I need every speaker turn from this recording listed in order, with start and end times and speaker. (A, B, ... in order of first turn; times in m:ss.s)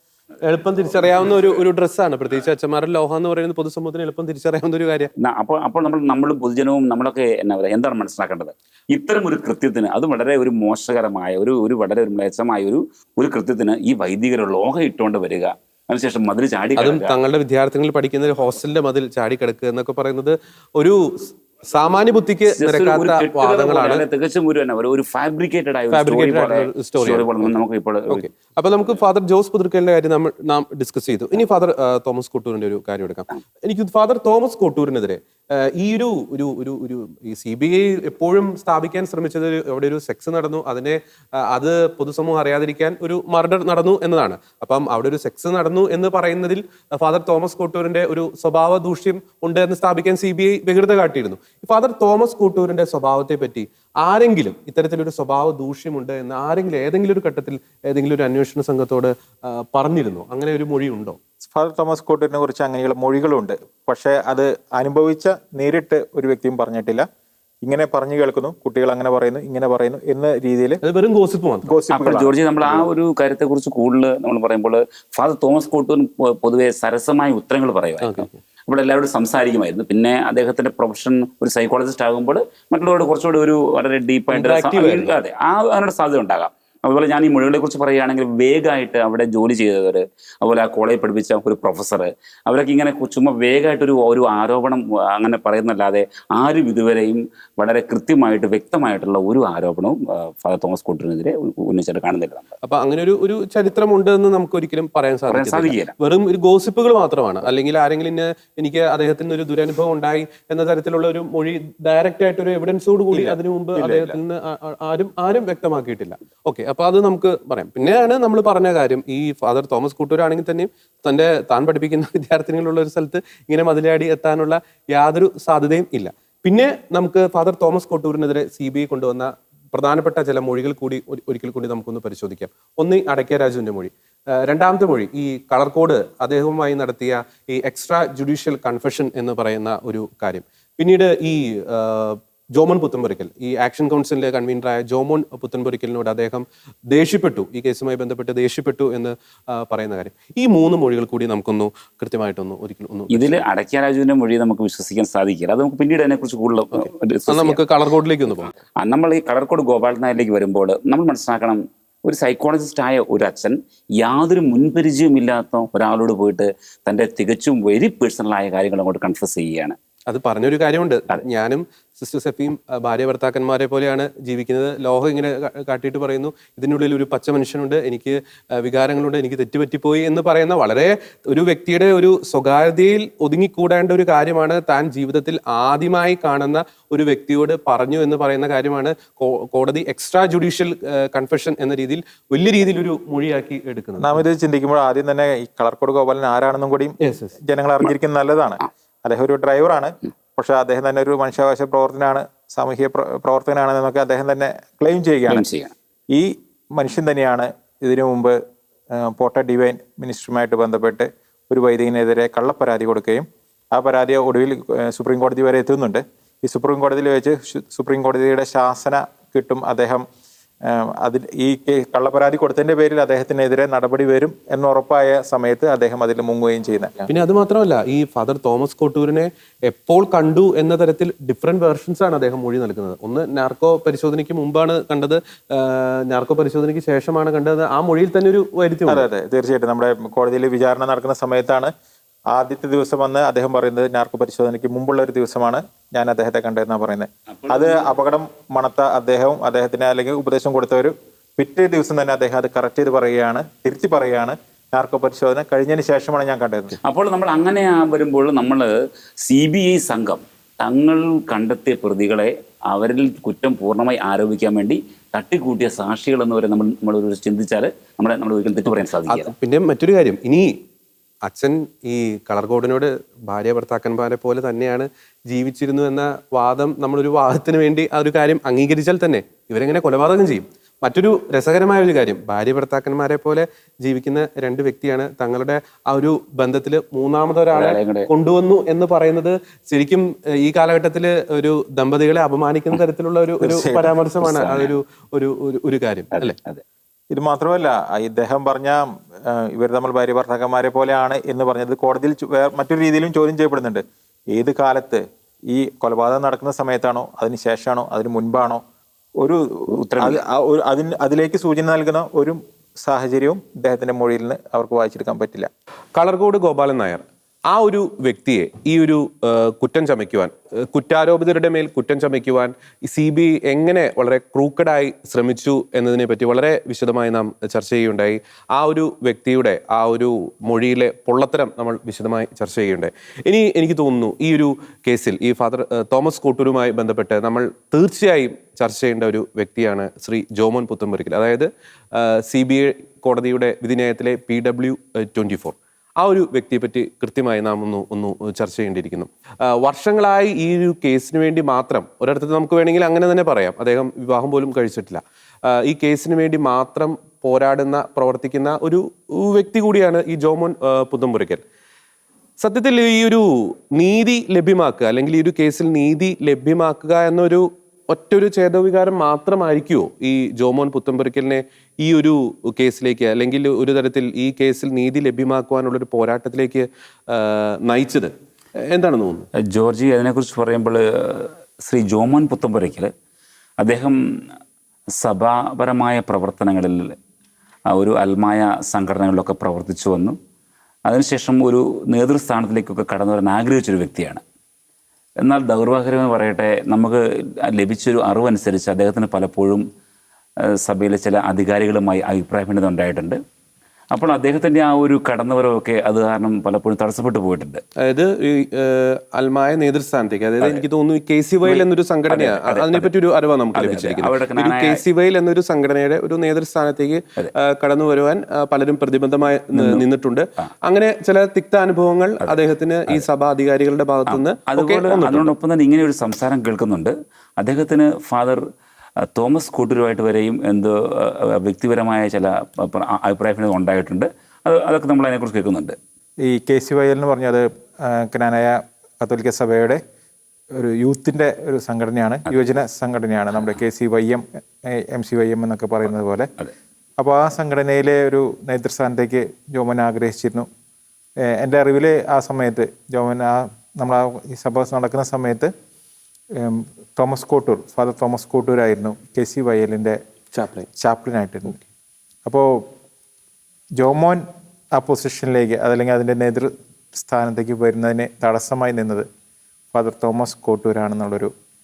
0:00.5-0:05.1 A
0:05.2-0:17.2 B
0:16.8-0:24.0 A
0:22.5-0:28.3 B
0:25.9-1:01.2 A
1:01.4-1:07.1 C
1:07.6-1:10.8 C
1:10.8-1:11.8 A
1:11.7-1:12.8 C
1:11.9-1:42.6 B
1:18.0-1:18.4 A
1:24.3-1:25.1 A
1:42.6-2:33.5 A
1:45.3-1:45.9 B
1:53.1-1:54.2 B
2:33.1-2:37.6 B
2:36.7-2:38.6 A
2:38.4-2:49.8 B
2:50.1-3:14.2 A
3:14.0-3:25.4 C
3:17.0-3:17.3 A
3:25.3-3:25.7 B
3:26.1-3:28.4 C
3:28.9-3:40.0 C
3:40.6-3:47.1 C
3:47.1-3:59.0 A
3:58.9-4:01.7 C
4:02.3-4:16.8 C
4:07.4-4:07.8 B
4:16.8-4:29.3 B
4:29.1-4:30.6 A
4:31.2-4:56.4 A
4:47.5-4:48.1 B
4:53.4-4:54.0 C
4:54.2-4:54.7 B
4:56.2-4:56.6 B
4:57.1-5:08.6 C
5:09.2-5:15.5 C
5:09.7-5:10.2 B
5:16.0-6:01.4 A
6:02.4-6:18.1 A
6:18.7-6:19.3 A
6:19.5-6:22.9 B
6:23.6-6:24.0 B
6:25.0-6:27.0 B
6:27.7-6:30.2 B
6:30.9-6:34.2 B
6:35.2-6:39.6 B
6:40.6-6:43.2 B
6:43.9-6:47.6 B
6:47.8-7:05.3 A
6:51.4-6:52.9 B
6:53.6-6:54.8 B
6:59.5-6:59.8 B
7:04.1-7:08.4 B
7:09.0-7:15.8 B
7:16.3-7:19.8 C
7:20.6-7:26.3 C
7:27.0-7:30.5 C
7:31.2-7:35.5 C
7:36.4-7:40.0 C
7:40.4-7:40.7 A
7:40.8-7:41.6 C
7:42.2-7:42.7 C
7:43.8-7:44.2 C
7:44.7-7:49.1 C
7:49.7-7:51.3 C